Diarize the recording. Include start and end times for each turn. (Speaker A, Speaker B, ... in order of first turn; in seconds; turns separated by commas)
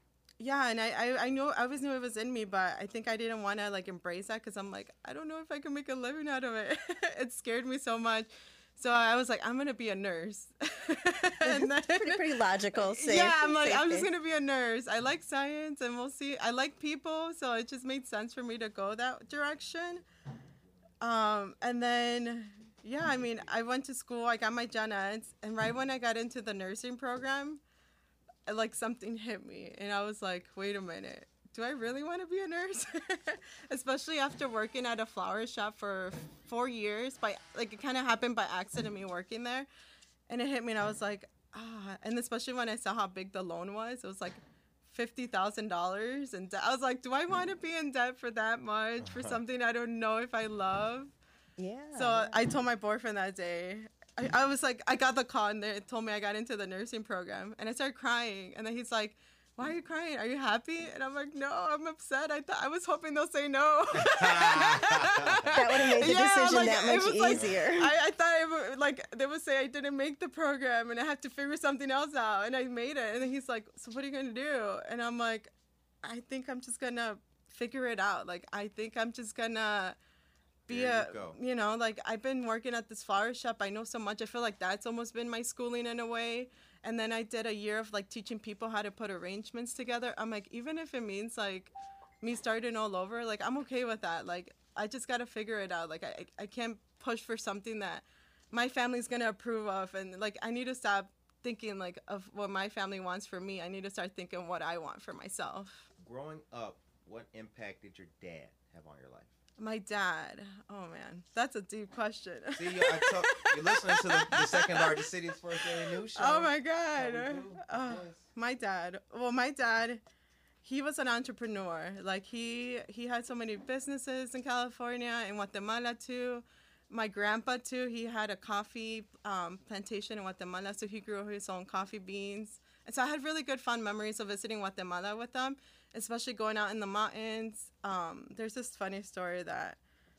Speaker A: 0.4-20.0, Speaker B: 11.4-14.1, Speaker A: 21.0-27.6, Speaker A: 28.4-39.7, Speaker A: 40.3-51.1, Speaker C: 49.0-49.4, Speaker B: 51.6-52.4, Speaker A: 51.9-75.5, Speaker C: 63.9-65.5, Speaker B: 65.5-67.9, Speaker A: 76.0-80.0, Speaker A: 80.7-105.9, Speaker C: 80.7-81.3, Speaker C: 106.0-109.3, Speaker A: 109.6-115.1, Speaker C: 112.5-118.2, Speaker A: 115.9-120.0, Speaker A: 120.6-139.8